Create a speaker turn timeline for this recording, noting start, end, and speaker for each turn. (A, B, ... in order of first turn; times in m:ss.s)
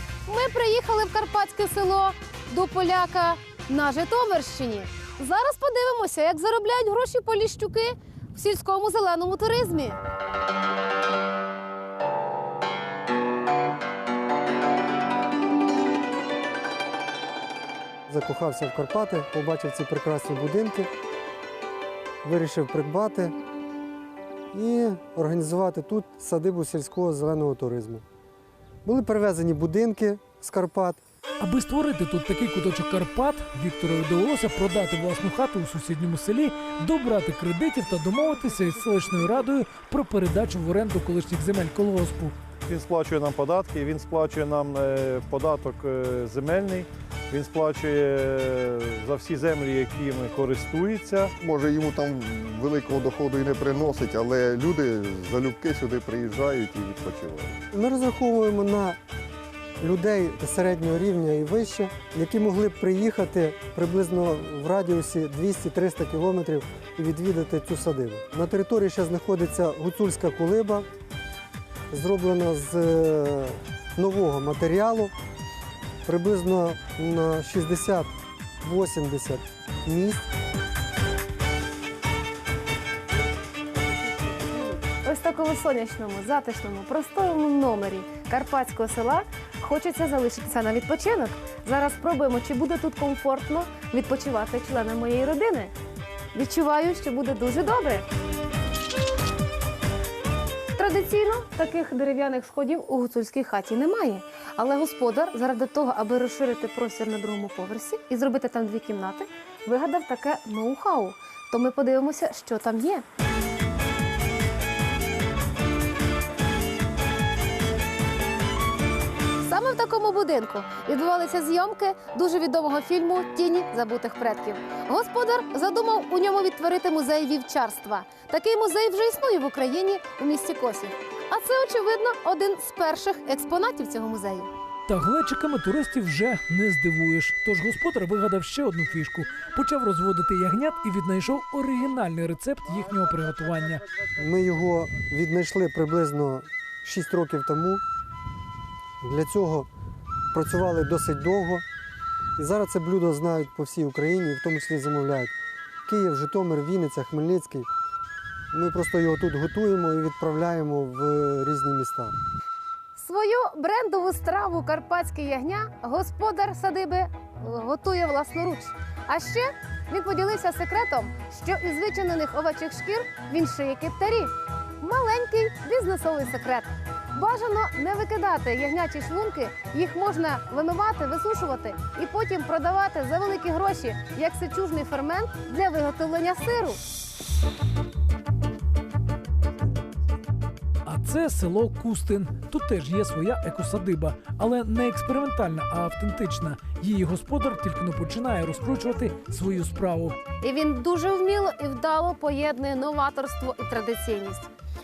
0:00.3-0:10.0 A
0:18.1-0:20.9 B
0:22.2-0:23.4 B
0:24.5-0:28.0 B
0:28.8-0:31.0 B
0:31.4-0:42.4 C
0:42.8-0:43.4 D
0:45.3-0:45.8 D
0:47.8-0:48.3 D
0:49.2-0:51.0 D
0:51.4-0:57.6 E
0:57.7-0:59.0 B
0:59.8-1:10.9 B
1:11.9-1:15.1 B
1:16.0-1:18.1 B
1:18.6-1:20.3 B
1:25.0-1:35.7 A
1:36.3-1:38.0 A
1:40.8-1:53.0 A
1:59.4-2:14.5 A
2:14.9-2:23.8 C
2:24.2-2:27.8 B
2:29.0-2:29.7 B
2:30.3-2:31.6 B
2:32.4-2:35.3 B
2:35.9-2:37.7 B
2:38.5-2:42.2 B
2:43.0-3:06.8 A
3:10.8-3:20.2 C
3:20.4-3:24.5 A